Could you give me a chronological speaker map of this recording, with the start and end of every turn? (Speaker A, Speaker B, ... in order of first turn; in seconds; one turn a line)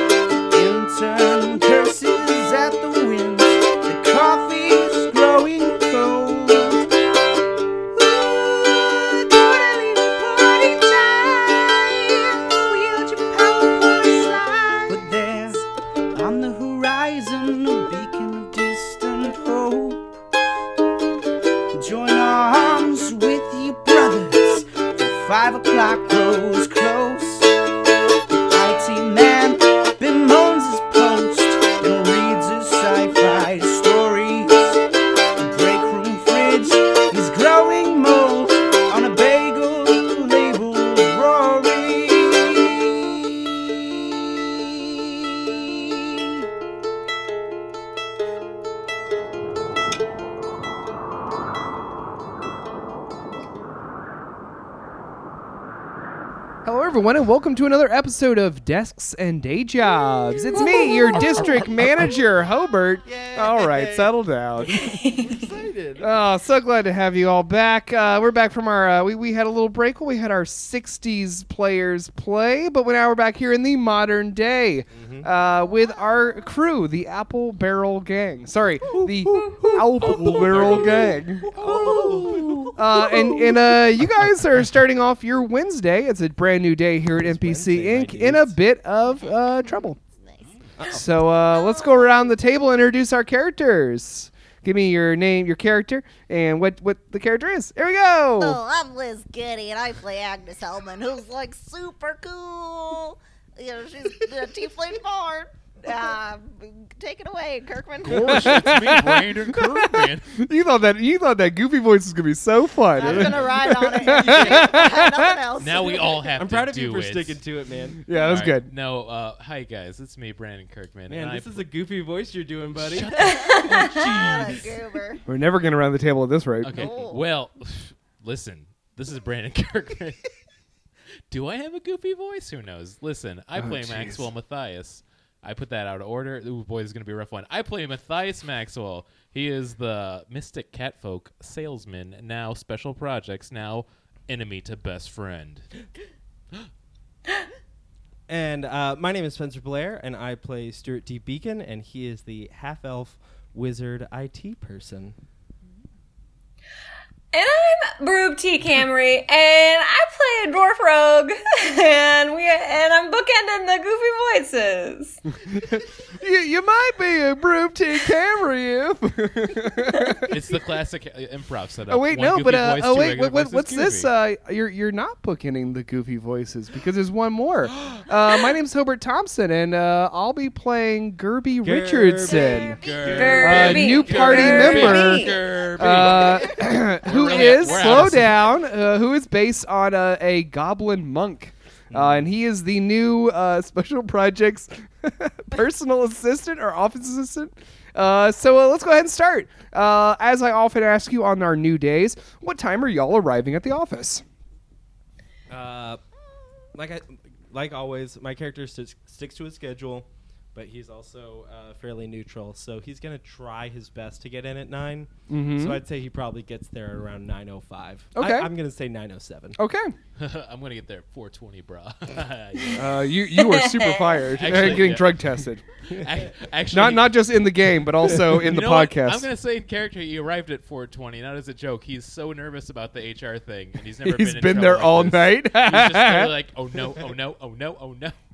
Speaker A: 0.5-6.8
Speaker A: 8.0-20.1
Speaker A: 21.7-27.5
Speaker A: 28.3-34.8
Speaker A: 35.4-43.3
Speaker A: 44.4-44.8
Speaker A: 45.4-45.7
Speaker B: 56.6-64.9
Speaker C: 63.1-64.2
Speaker C: 64.7-66.1
Speaker D: 65.0-65.2
Speaker B: 66.0-90.0
Speaker C: 74.9-75.3
Speaker C: 78.8-83.5
Speaker E: 81.6-82.7
Speaker C: 87.2-88.6
Speaker E: 89.2-90.5
Speaker C: 90.8-91.0
Speaker B: 90.8-98.6
Speaker E: 98.4-108.7
Speaker F: 108.0-110.4
Speaker B: 108.2-115.4
Speaker E: 112.9-116.1
Speaker C: 113.0-114.9
Speaker F: 115.6-117.4
Speaker C: 116.4-118.0
Speaker B: 118.1-118.7
Speaker F: 118.2-121.7
Speaker C: 121.1-123.1
Speaker F: 122.7-124.8
Speaker E: 123.2-125.2
Speaker D: 123.4-124.0
Speaker B: 125.3-126.8
Speaker F: 126.6-130.2
Speaker E: 126.8-127.2
Speaker F: 131.3-145.7
Speaker B: 133.6-134.3
Speaker C: 148.3-155.2
Speaker D: 157.3-165.2
Speaker B: 165.7-170.3
Speaker F: 170.3-174.1
Speaker B: 171.9-182.8
Speaker C: 181.6-183.7
Speaker D: 182.3-185.5
Speaker F: 182.8-188.5
Speaker E: 182.8-183.3
Speaker B: 183.4-204.2
Speaker C: 191.9-192.3
Speaker C: 205.5-206.0
Speaker C: 206.8-219.6
Speaker B: 215.3-215.8
Speaker B: 218.2-218.5
Speaker B: 219.6-219.9
Speaker F: 220.2-223.0
Speaker B: 222.8-225.6
Speaker D: 223.3-224.2
Speaker F: 224.3-225.3
Speaker F: 226.0-227.3
Speaker B: 226.7-229.3
Speaker F: 228.3-238.2
Speaker B: 234.0-236.3